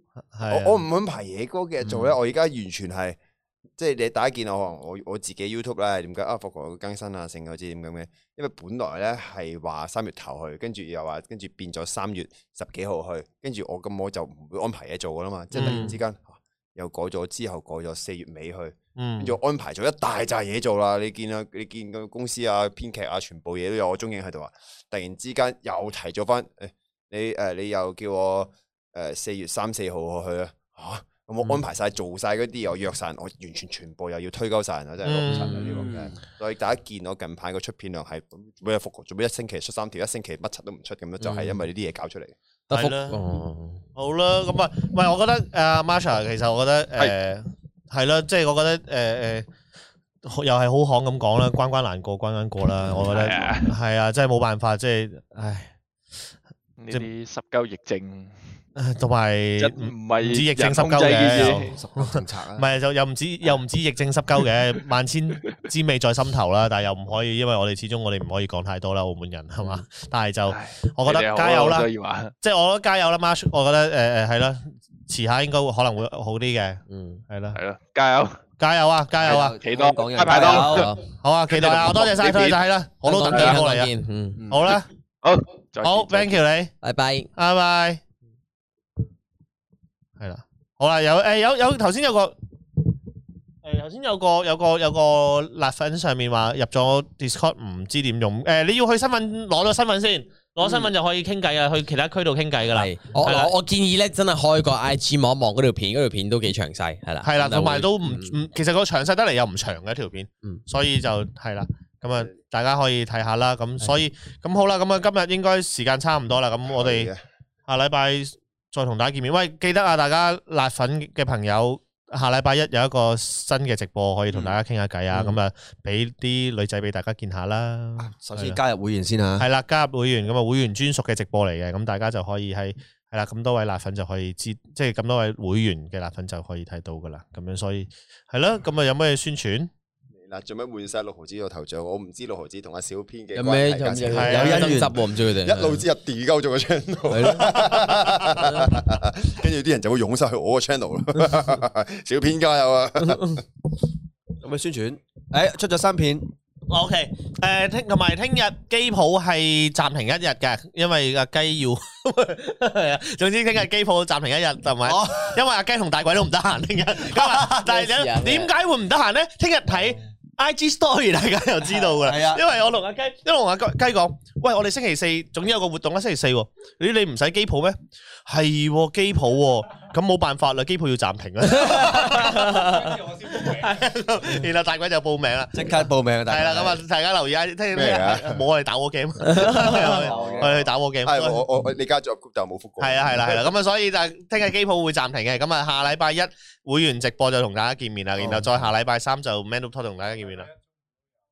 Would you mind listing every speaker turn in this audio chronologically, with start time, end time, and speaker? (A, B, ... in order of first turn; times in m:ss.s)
0:00.3-0:00.8 A
0:00.5-0:03.2 B
0:03.8-0:42.4 B
0:15.5-0:16.0 A
0:19.0-0:19.4 A
0:35.0-0:35.8 A
0:35.4-0:36.2 C
0:41.2-0:41.6 D
0:42.7-0:43.8 D
0:42.7-0:43.2 A
0:44.0-0:49.5 A
0:50.2-0:55.7 A
0:53.0-0:53.7 E
0:56.8-0:58.4 E
0:58.8-1:11.9 A
0:59.6-1:01.8 E
1:00.9-1:02.7 C
1:10.4-1:12.3 E
1:12.4-1:17.6 A
1:16.9-1:17.2 D
1:17.5-1:18.4 E
1:18.6-1:19.6 A
1:19.2-1:20.9 C
1:19.2-1:22.6 E
1:20.4-1:21.0 D
1:21.2-1:23.9 A
1:23.0-1:24.4 D
1:23.3-1:23.6 E
1:24.4-1:24.7 C
1:24.5-1:24.9 A
1:25.2-1:26.4 E
1:25.8-1:26.7 A
1:26.8-1:27.3 D
1:27.4-1:28.0 A
1:30.2-1:32.4 A
1:33.6-1:43.5 A
1:42.7-1:48.4 D
1:47.2-1:57.1 A
1:56.7-1:57.2 B
1:57.7-2:08.6 A
2:05.1-2:05.4 D
2:08.0-2:09.5 C
2:09.4-2:19.7 A
2:20.1-2:24.6 B
2:23.3-2:25.8 D
2:24.1-2:24.8 A
2:24.1-2:25.0 C
2:25.2-2:33.4 B
2:27.1-2:27.6 C
2:34.4-2:36.3 C
2:36.7-3:05.7 A
2:44.8-2:45.4 C
2:47.3-2:48.5 D
2:51.7-2:52.4 C
3:01.6-3:02.8 D
3:05.5-3:06.8 C
3:06.3-3:11.4 A
3:07.7-3:08.4 B
3:09.4-3:10.7 C
3:09.9-3:13.5 B
3:12.8-3:20.5 A
3:18.2-3:18.7 C